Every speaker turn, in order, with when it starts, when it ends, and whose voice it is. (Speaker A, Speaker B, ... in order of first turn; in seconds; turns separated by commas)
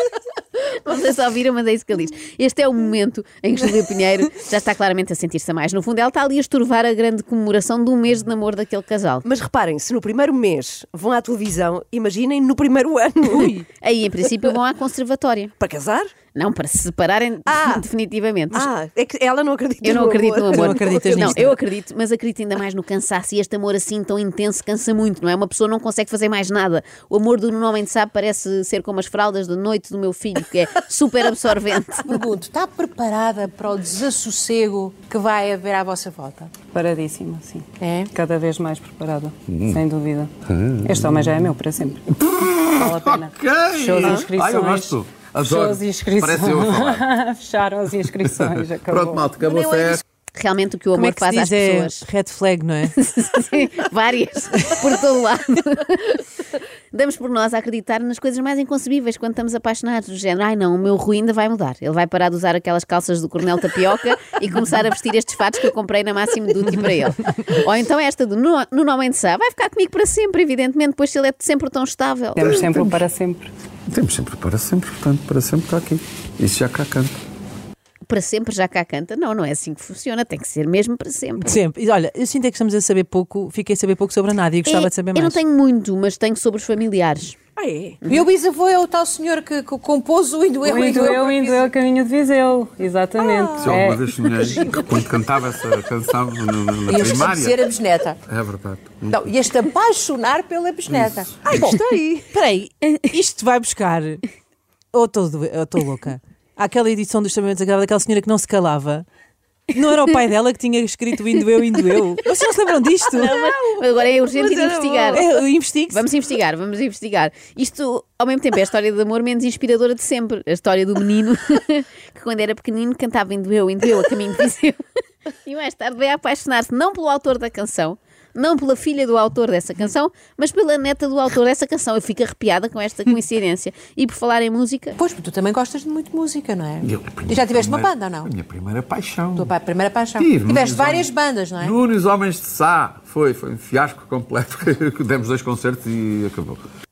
Speaker A: 0.6-9.2, Speaker B: 9.2-13.7, Speaker A: 13.8-15.5, Speaker B: 15.6-16.1, Speaker A: 16.3-18.7, Speaker B: 17.5-17.8, Speaker B: 18.5-21.5, Speaker A: 19.8-32.2, Speaker C: 20.5-21.5, Speaker D: 32.1-36.5, Speaker E: 36.7-42.1, Speaker D: 37.8-38.1, Speaker F: 39.5-39.8, Speaker F: 40.5-41.0, Speaker F: 42.2-47.0, Speaker E: 42.7-49.4, Speaker B: 44.0-44.2, Speaker F: 48.2-50.0, Speaker A: 49.5-52.0, Speaker C: 50.9-52.9, Speaker A: 53.0-56.3, Speaker A: 56.9-72.6, Speaker E: 72.3-73.5, Speaker F: 72.5-72.9, Speaker F: 73.9-77.2, Speaker A: 78.1-81.5, Speaker C: 81.4-85.4, Speaker A: 84.7-87.4, Speaker B: 87.6-88.0, Speaker D: 88.1-91.7, Speaker E: 90.6-94.0, Speaker B: 93.3-93.8, Speaker F: 93.6-97.6, Speaker B: 94.3-95.1, Speaker D: 96.9-98.2, Speaker F: 98.3-99.2, Speaker D: 99.1-101.8, Speaker B: 101.5-102.3, Speaker C: 102.3-104.2, Speaker C: 104.9-109.0, Speaker C: 109.7-113.3, Speaker A: 113.1-115.2, Speaker B: 113.4-115.3, Speaker C: 115.1-116.0, Speaker A: 115.9-124.8, Speaker A: 125.4-135.0, Speaker D: 135.0-138.3, Speaker F: 136.8-139.5, Speaker D: 139.3-141.8, Speaker F: 140.2-141.1, Speaker F: 141.6-146.6